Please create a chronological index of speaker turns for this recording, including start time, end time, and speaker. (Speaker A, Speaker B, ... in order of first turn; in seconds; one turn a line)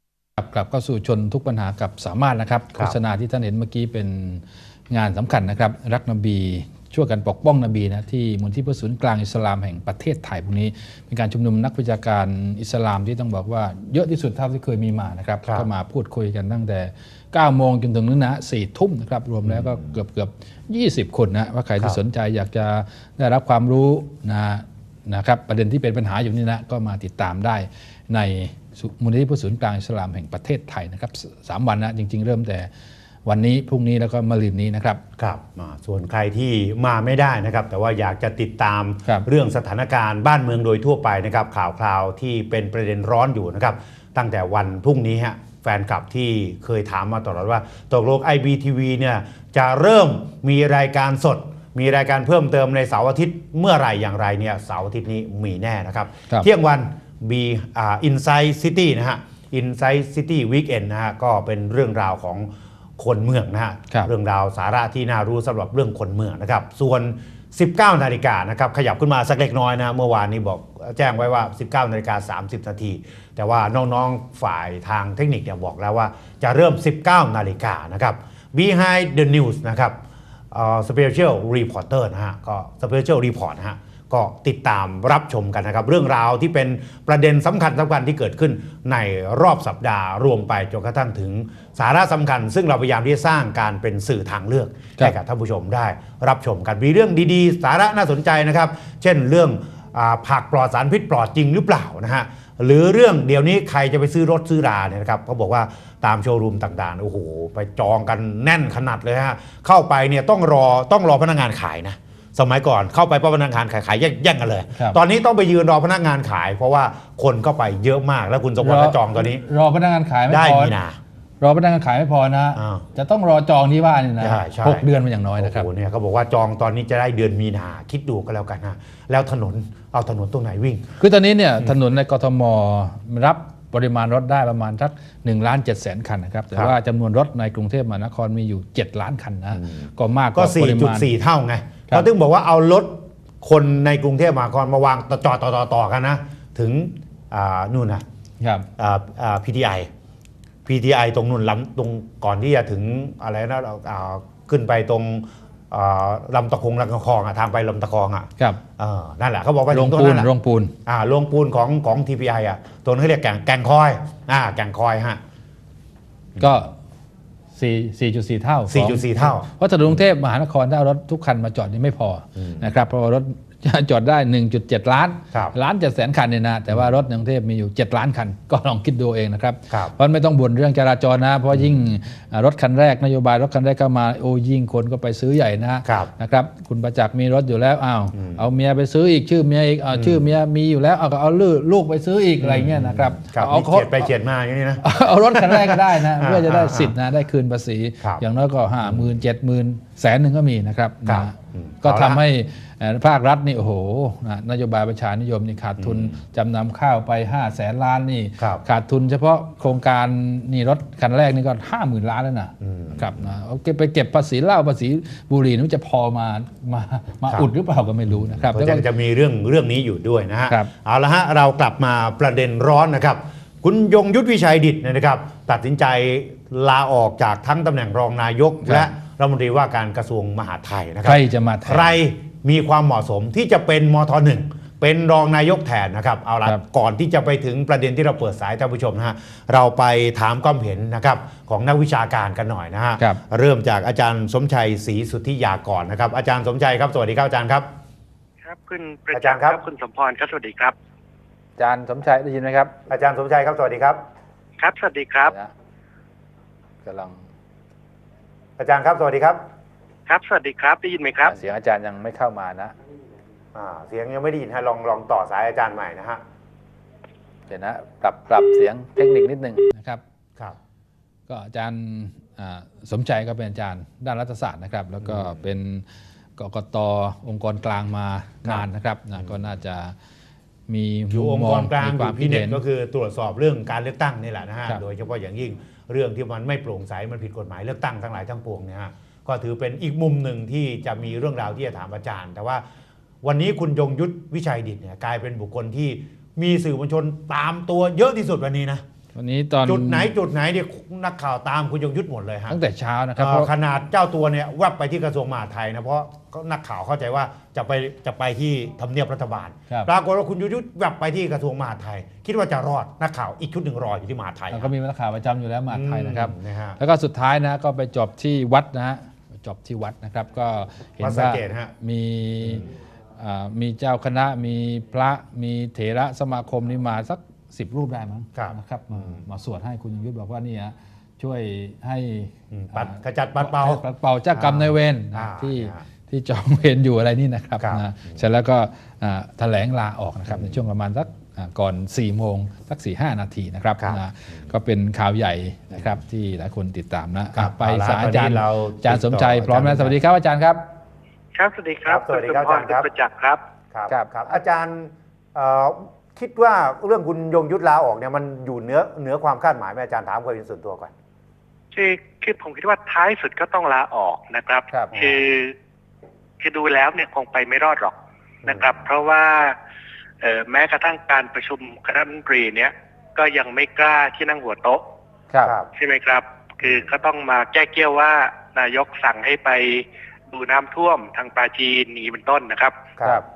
Speaker A: 0.4-32.7
Speaker B: 19.5-19.9
Speaker A: 33.2-35.0
Speaker B: 35.2-80.0
Speaker B: 80.5-119.5
Speaker A: 118.6-120.7
Speaker B: 120.3-121.0
Speaker A: 121.4-125.7
Speaker B: 122.6-122.8
Speaker B: 124.2-124.9
Speaker B: 125.4-131.0
Speaker A: 131.0-141.1
Speaker B: 139.6-148.1
Speaker A: 148.4-148.7
Speaker B: 148.8-149.9
Speaker B: 150.7-160.3
Speaker A: 159.7-160.7
Speaker B: 160.9-165.2
Speaker A: 166.4-166.8
Speaker A: 167.6-194.1
Speaker B: 168.7-169.5
Speaker B: 172.4-172.7
Speaker B: 179.7-179.9
Speaker B: 185.8-186.1
Speaker B: 188.1-188.4
Speaker B: 189.9-190.2
Speaker B: 192.4-196.9
Speaker A: 194.8-218.8
Speaker B: 198.8-199.2
Speaker B: 201.1-202.2
Speaker B: 205.8-206.2
Speaker B: 208.4-208.6
Speaker B: 212.6-213.2
Speaker B: 218.4-247.7
Speaker A: 228.6-228.9
Speaker A: 231.0-232.0
Speaker C: 248.4-250.8
Speaker B: 249.1-249.6
Speaker A: 251.6-252.7
Speaker B: 252.9-254.0
Speaker C: 254.6-255.3
Speaker A: 255.3-255.5
Speaker A: 256.8-257.2
Speaker B: 258.6-259.4
Speaker C: 260.1-261.4
Speaker A: 261.2-262.8
Speaker B: 263.5-266.2
Speaker A: 267.5-270.0
Speaker A: 271.3-275.9
Speaker B: 275.0-275.4
Speaker A: 276.4-280.0
Speaker B: 279.2-279.5
Speaker A: 280.7-282.6
Speaker B: 281.1-292.6
Speaker B: 293.2-298.8
Speaker A: 299.1-300.1
Speaker B: 299.6-302.6
Speaker A: 302.5-303.5
Speaker B: 303.2-314.7
Speaker A: 314.5-350.6
Speaker B: 315.7-316.8
Speaker B: 321.0-321.7
Speaker B: 328.4-329.3
Speaker B: 332.5-335.9
Speaker B: 337.6-338.2
Speaker B: 340.3-340.6
Speaker B: 347.4-350.0
Speaker C: 351.4-353.4
Speaker B: 351.9-352.9
Speaker B: 353.7-360.9
Speaker A: 353.9-354.4
Speaker C: 361.7-365.6
Speaker B: 364.9-365.3
Speaker C: 366.4-369.6
Speaker B: 368.5-368.9
Speaker C: 370.2-374.8
Speaker B: 375.4-375.7
Speaker C: 375.8-382.8
Speaker B: 376.6-376.9
Speaker B: 383.0-383.2